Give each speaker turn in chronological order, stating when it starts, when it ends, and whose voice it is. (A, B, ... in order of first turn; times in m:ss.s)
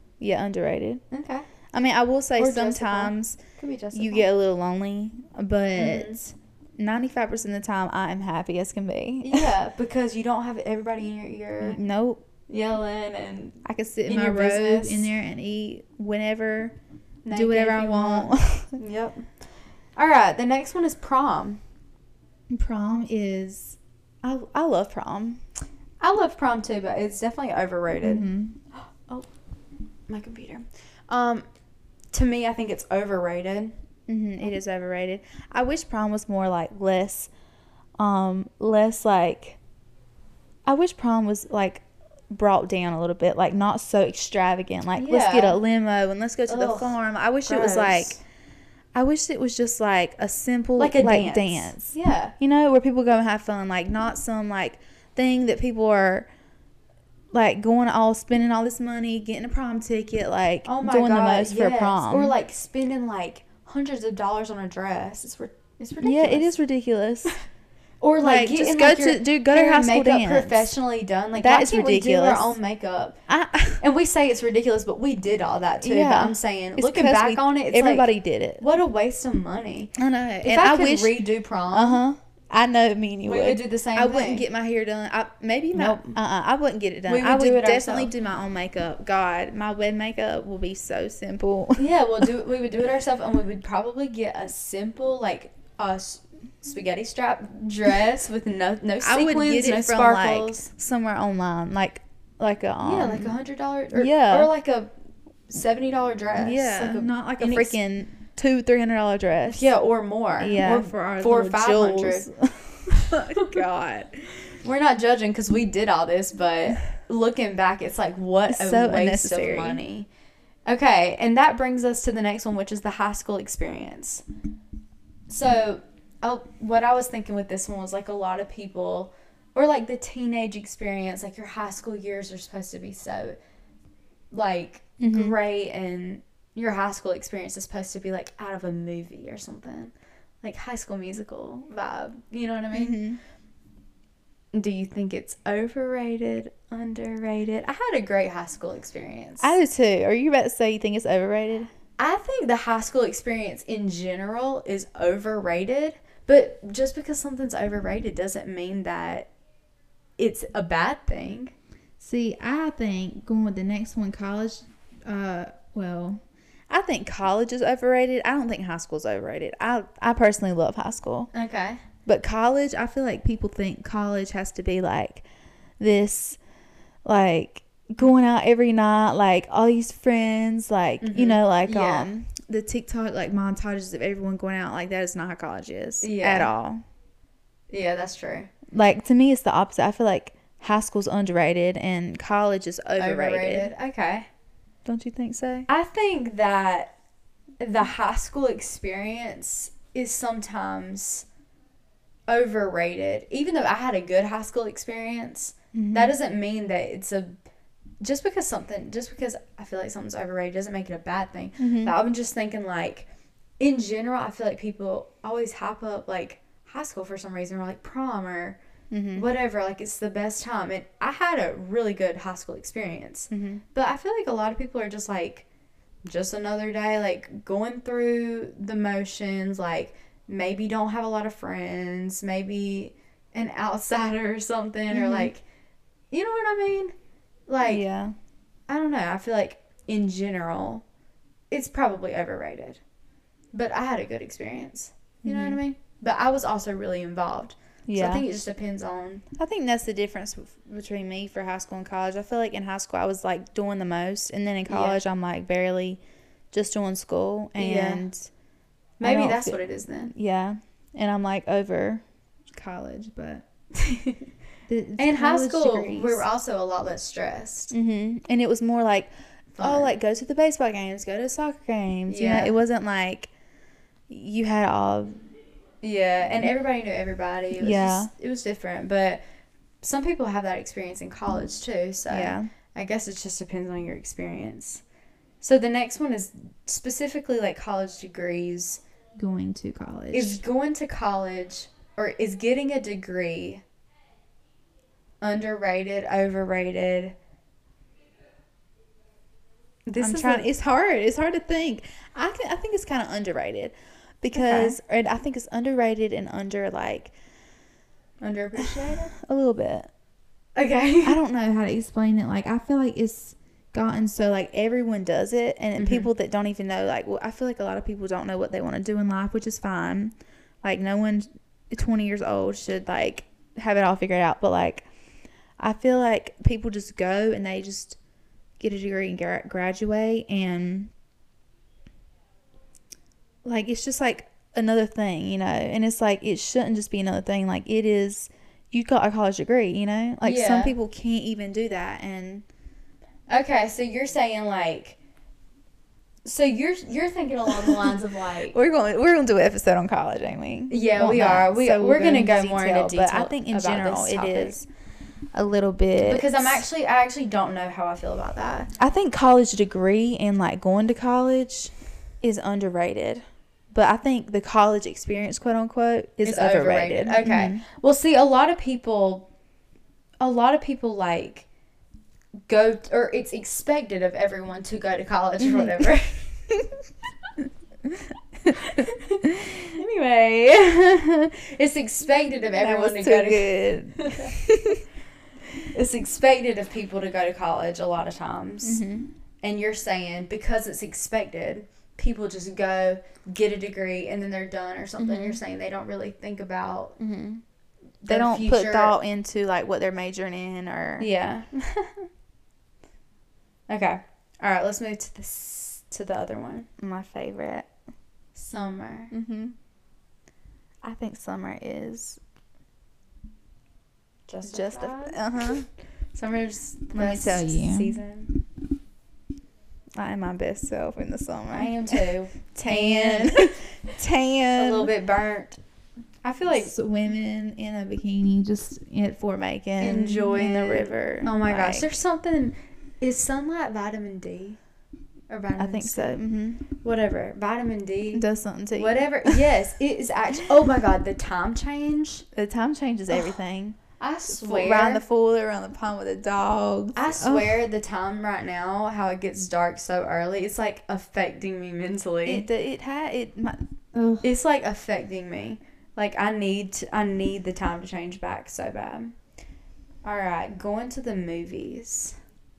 0:00.2-0:01.0 A
0:01.1-0:01.5 B
0:01.7-0:03.4 A
0:02.4-0:04.3 B
0:03.9-0:09.5 A
0:05.8-0:06.2 B
0:09.2-0:11.8 B
0:11.6-0:12.2 A
0:12.5-0:15.1 B
0:13.6-0:16.8 A
0:17.2-0:19.3 B
0:17.3-0:18.8 A
0:20.0-0:21.6 B
0:22.5-0:25.4 A
0:26.0-0:29.3 B
0:28.0-0:28.6 A
0:30.1-0:31.4 B
0:32.1-0:33.7 B
0:34.1-0:37.3 A
0:38.0-0:39.6 A
0:40.7-0:48.2 A
0:45.0-0:45.6 B
0:46.5-0:48.2 B
0:49.0-0:56.3 A
0:50.8-0:52.3 B
0:57.3-1:02.4 A
1:00.6-1:06.5 B
1:06.0-1:07.4 A
1:08.0-1:13.2 B
1:08.2-1:10.7 A
1:11.4-1:12.6 A
1:13.3-1:13.8 A
1:13.8-1:22.0 B
1:15.8-1:18.6 A
1:20.0-1:21.2 A
1:21.7-1:32.3 A
1:23.3-1:24.4 B
1:25.7-1:26.2 B
1:27.1-1:28.1 B
1:31.8-1:40.7 B
1:39.0-1:43.3 A
1:42.8-1:44.9 B
1:43.9-1:44.5 A
1:45.5-1:47.8 B
1:46.4-1:49.7 A
1:49.5-1:52.3 B
1:50.4-1:54.5 A
1:52.9-1:53.6 B
1:54.6-2:00.1 B
1:58.5-1:59.8 A
2:00.7-2:04.2 B
2:05.3-2:13.4 B
2:14.3-2:23.0 B
2:15.0-2:15.4 A
2:22.7-2:23.2 A
2:24.5-2:29.6 B
2:29.4-2:31.7 A
2:32.0-2:39.3 B
2:40.2-2:41.5 B
2:42.0-2:51.3 A
2:51.3-2:51.8 B
2:52.1-2:55.2 A
2:55.8-2:56.4 A
2:57.0-3:06.8 A
3:01.0-3:02.1 B
3:06.0-3:06.5 B
3:07.7-3:08.5 B
3:08.7-3:13.7 A
3:13.0-3:14.3 B
3:14.8-3:15.7 A
3:15.7-3:16.9 B
3:17.6-3:21.3 B
3:22.3-3:27.4 B
3:25.7-3:26.1 A
3:28.0-3:33.1 B
3:31.6-3:32.0 A
3:33.6-3:38.6 B
3:38.9-3:39.3 A
3:39.1-3:45.4 B
3:43.3-3:43.6 A
3:46.0-3:55.4 B
3:54.9-3:55.3 A
3:56.1-3:56.9 B
3:57.5-3:57.8 B
3:57.6-3:58.2 A
3:58.7-4:00.8 B
4:01.5-4:02.8 B
4:03.5-4:09.2 B
4:05.2-4:05.6 A
4:07.9-4:08.2 A
4:09.4-4:16.0 A
4:14.7-4:15.0 B
4:16.5-4:18.3 A
4:17.6-4:18.0 B
4:19.0-4:20.1 B
4:19.0-4:19.6 A
4:20.1-4:23.5 A
4:23.8-4:24.2 B
4:24.7-4:26.2 A
4:25.0-4:27.7 B
4:27.7-4:33.3 A
4:29.6-4:30.0 B
4:32.1-4:32.6 B
4:34.1-4:35.2 A
4:35.8-4:39.2 B
4:37.6-4:38.1 A
4:39.8-4:44.8 B
4:42.1-4:42.5 A
4:45.4-4:48.8 B
4:49.2-4:50.4 A
4:50.1-4:53.6 B
4:55.2-4:57.2 B
4:59.9-5:00.5 B
5:00.0-5:07.1 A
5:04.4-5:04.8 B
5:08.2-5:09.1 B
5:08.8-5:09.9 A
5:10.6-5:11.2 B
5:11.0-5:24.9 A
5:15.8-5:16.1 B
5:25.6-5:28.0 A
5:28.6-5:30.9 A
5:33.4-5:42.4 A
5:40.2-5:40.7 B
5:43.3-5:45.0 B
5:46.2-5:48.6 B
5:48.5-5:54.7 A
5:50.7-5:54.6 B
5:55.3-5:56.7 A
5:56.0-5:58.7 B
5:58.8-6:07.6 A
6:06.2-6:09.3 B
6:10.2-6:11.5 B
6:12.5-6:16.3 B
6:15.4-6:15.9 A
6:17.8-6:19.6 A
6:18.6-6:24.4 B
6:22.6-6:24.8 A
6:25.7-6:28.8 B
6:28.6-6:29.1 A
6:29.4-6:37.0 B
6:35.0-6:35.4 A
6:37.0-6:37.4 A
6:38.0-6:39.0 B
6:38.1-6:41.1 A
6:41.0-6:42.1 B
6:43.7-6:46.7 B
6:46.8-6:47.7 A
6:48.4-6:49.1 B
6:49.1-6:49.6 A
6:50.8-6:52.2 A
6:54.3-6:55.2 B
6:54.4-6:55.7 A
6:56.1-6:58.4 B
6:56.9-6:58.0 A
7:00.0-7:04.9 A
7:01.5-7:03.6 B
7:04.6-7:05.6 B
7:06.2-7:06.7 B
7:06.5-7:11.9 A
7:09.8-7:14.6 B
7:15.3-7:16.2 B
7:15.6-7:16.6 A
7:16.8-7:18.2 B
7:18.1-7:19.4 A
7:18.8-7:22.2 B
7:22.3-7:27.6 A
7:24.0-7:25.0 B
7:27.0-7:32.5 B
7:32.3-7:34.3 A
7:34.2-7:39.2 B
7:40.0-7:42.2 B